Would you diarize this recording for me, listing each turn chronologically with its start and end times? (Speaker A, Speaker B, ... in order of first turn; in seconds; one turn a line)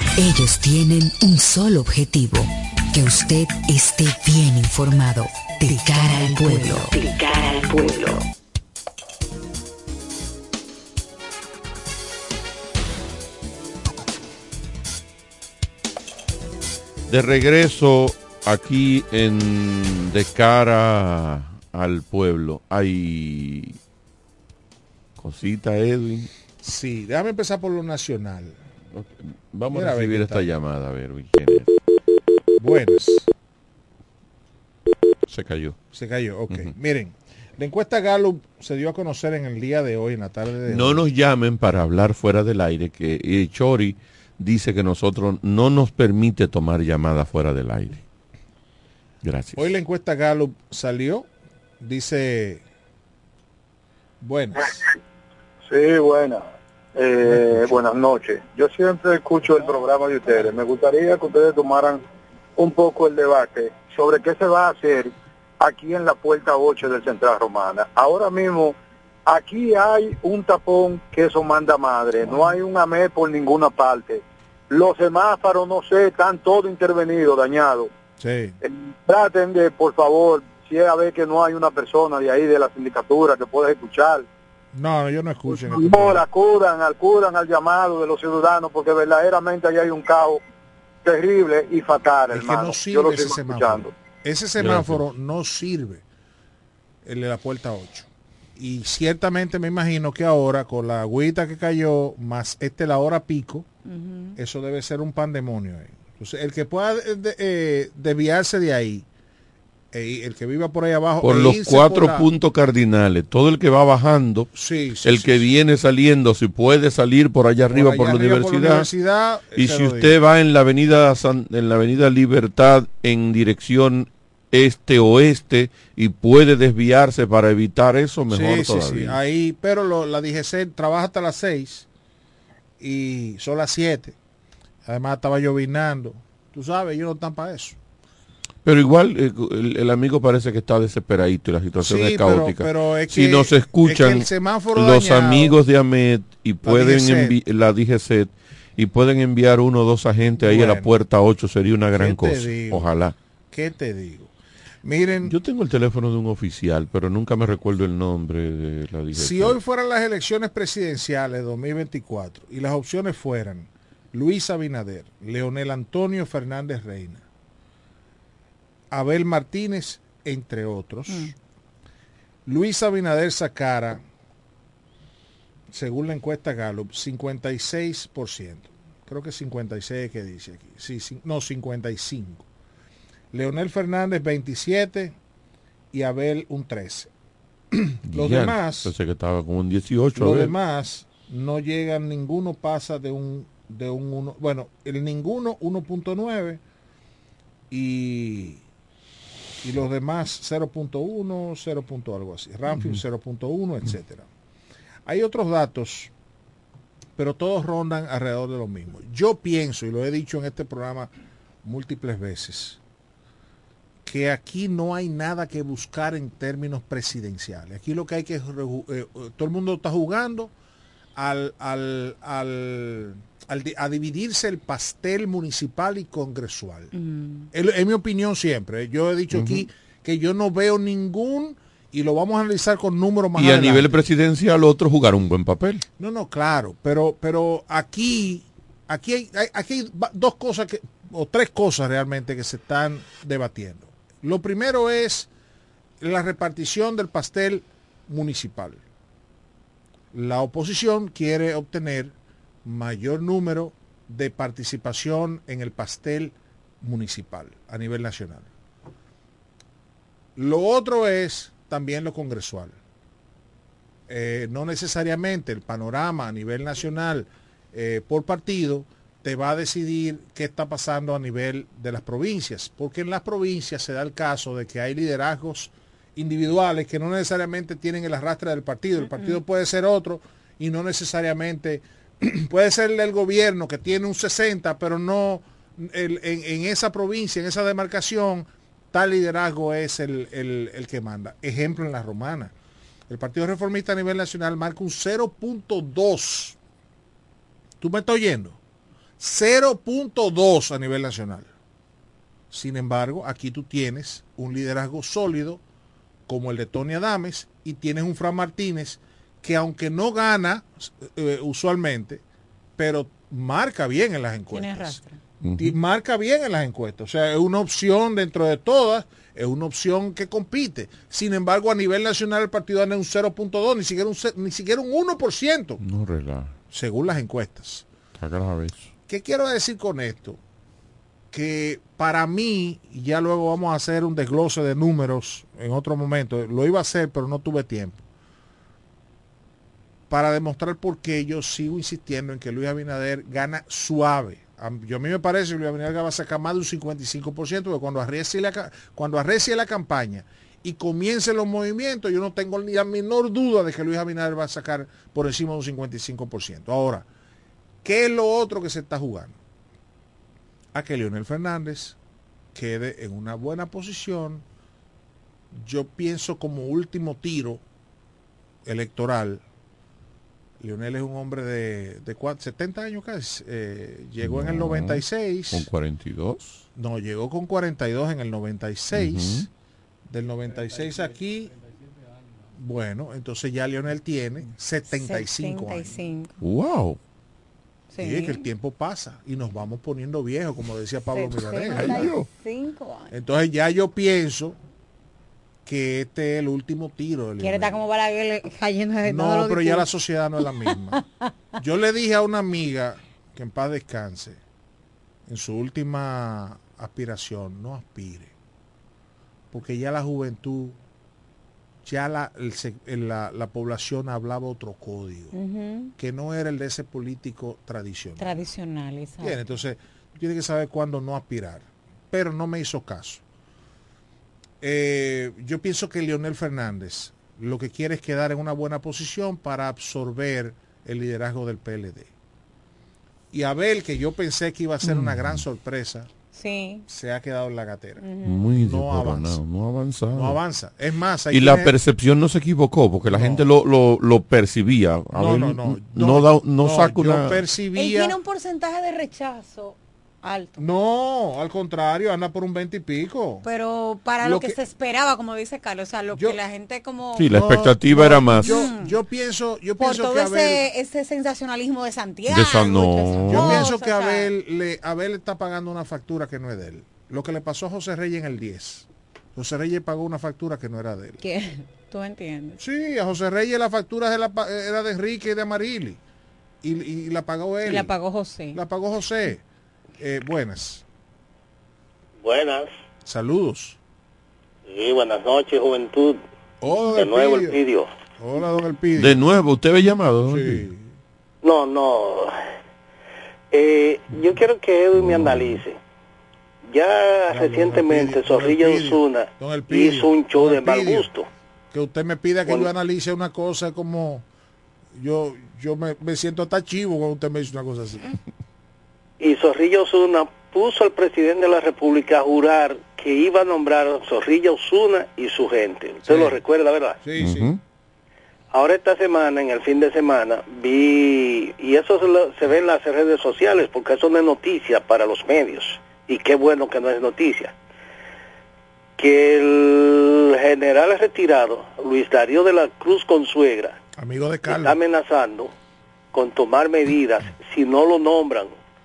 Speaker A: 0.2-8.2
Speaker B: 17.1-23.8
Speaker B: 25.2-26.3
Speaker C: 26.6-28.6
Speaker B: 28.9-31.7
Speaker C: 29.7-30.5
Speaker C: 32.6-33.3
Speaker B: 35.3-35.8
Speaker C: 35.9-41.0
Speaker B: 40.7-48.0
Speaker B: 49.2-49.7
Speaker C: 49.6-51.3
Speaker C: 51.8-52.6
Speaker C: 54.2-54.8
Speaker D: 55.7-56.4
Speaker D: 57.0-62.0
Speaker D: 62.6-77.9
Speaker C: 78.2-78.6
Speaker D: 78.7-84.3
Speaker C: 84.7-86.2
Speaker D: 85.5-90.4
Speaker D: 91.0-93.9
Speaker C: 92.3-96.0
Speaker B: 94.6-95.0
Speaker C: 97.0-103.7
Speaker E: 103.9-104.4
Speaker C: 104.4-109.1
Speaker C: 109.9-112.3
Speaker B: 111.2-114.5
Speaker C: 114.5-115.5
Speaker B: 115.0-118.9
Speaker C: 117.7-120.2
Speaker B: 119.5-129.2
Speaker C: 128.3-131.9
Speaker C: 132.8-134.2
Speaker C: 134.9-137.8
Speaker B: 138.7-153.2
Speaker C: 141.8-145.6
Speaker C: 146.6-147.4
Speaker C: 150.4-150.9
Speaker C: 152.0-152.9
Speaker C: 153.5-154.3
Speaker C: 154.8-155.3
Speaker B: 155.2-159.6
Speaker C: 159.1-167.2
Speaker C: 168.9-171.3
Speaker C: 172.5-174.0
Speaker C: 175.7-182.4
Speaker C: 183.3-185.2
Speaker C: 185.9-187.1
Speaker C: 187.7-188.9
Speaker B: 188.1-190.5
Speaker C: 190.2-196.6
Speaker C: 197.7-198.6
Speaker C: 199.6-204.3
Speaker C: 205.1-206.1
Speaker C: 207.2-211.1
Speaker C: 211.6-212.8
Speaker C: 214.0-220.5
Speaker C: 221.2-226.9
Speaker E: 226.9-227.5
Speaker C: 227.5-233.9
Speaker B: 229.3-229.7
Speaker B: 233.4-235.8
Speaker C: 236.0-245.3
Speaker C: 246.0-248.8
Speaker C: 250.1-258.5
Speaker C: 260.4-262.8
Speaker C: 264.1-292.5
Speaker E: 279.1-279.4
Speaker C: 293.1-296.6
Speaker C: 297.8-298.6
Speaker C: 299.2-301.5
Speaker C: 302.5-305.6
Speaker C: 306.3-312.2
Speaker C: 312.8-315.0
Speaker E: 314.5-315.2
Speaker B: 315.4-315.8
Speaker C: 315.6-325.8
Speaker B: 325.8-326.5
Speaker C: 326.7-327.9
Speaker B: 328.2-328.9
Speaker C: 329.1-330.4
Speaker C: 331.3-338.0
Speaker C: 340.1-357.1
Speaker C: 357.8-359.4
Speaker C: 360.7-362.0
Speaker C: 362.5-364.4
Speaker C: 365.5-367.6
Speaker C: 368.6-369.4
Speaker C: 370.6-375.7
Speaker B: 374.2-376.6
Speaker C: 376.8-379.5
Speaker B: 378.9-379.5
Speaker C: 380.1-381.6
Speaker C: 382.5-386.0
Speaker E: 384.9-386.4
Speaker B: 386.4-387.0
Speaker E: 387.9-388.5
Speaker C: 388.0-392.1
Speaker E: 391.1-393.2
Speaker B: 391.7-392.3
Speaker C: 393.1-394.6
Speaker C: 395.6-397.8
Speaker E: 397.4-399.9
Speaker C: 399.1-401.0
Speaker E: 400.4-401.0
Speaker C: 401.6-404.4
Speaker C: 405.3-408.3
Speaker C: 409.5-410.8
Speaker C: 411.9-415.3
Speaker E: 415.3-415.9
Speaker C: 416.0-418.5
Speaker E: 418.2-419.5
Speaker C: 419.2-423.2
Speaker C: 424.6-432.1
Speaker C: 433.3-436.1
Speaker B: 434.8-435.4
Speaker E: 436.3-436.9
Speaker C: 436.9-438.1
Speaker E: 438.0-438.5
Speaker B: 438.2-440.4
Speaker C: 438.6-439.4
Speaker C: 440.1-441.8
Speaker B: 441.3-447.4
Speaker C: 443.1-443.5
Speaker C: 445.1-448.1
Speaker E: 447.8-450.6
Speaker C: 450.6-453.4
Speaker E: 453.4-457.4
Speaker C: 454.2-454.6
Speaker B: 457.1-458.7
Speaker C: 457.3-460.6
Speaker E: 458.0-459.0
Speaker E: 459.8-464.3
Speaker B: 462.3-463.7
Speaker C: 463.2-471.2
Speaker E: 471.2-472.6
Speaker C: 472.6-476.0
Speaker C: 476.6-477.9
Speaker E: 477.6-478.6
Speaker C: 478.5-479.4
Speaker C: 480.0-480.8
Speaker F: 482.2-482.7
Speaker C: 483.1-483.8
Speaker F: 484.7-486.2
Speaker C: 486.6-487.6
Speaker F: 486.9-487.9
Speaker C: 488.2-489.2
Speaker B: 489.0-490.7
Speaker C: 490.3-490.9
Speaker F: 491.4-492.3
Speaker F: 493.5-495.8
Speaker B: 495.0-495.6
Speaker F: 496.7-501.3
Speaker C: 497.3-501.1
Speaker C: 501.7-504.2
Speaker C: 504.9-508.1
Speaker F: 509.2-517.0
Speaker C: 516.1-516.4
Speaker C: 517.0-517.5
Speaker B: 517.2-517.6
Speaker F: 518.5-527.5
Speaker F: 529.0-533.8
Speaker C: 534.0-534.8
Speaker F: 534.5-535.5
Speaker F: 536.1-538.5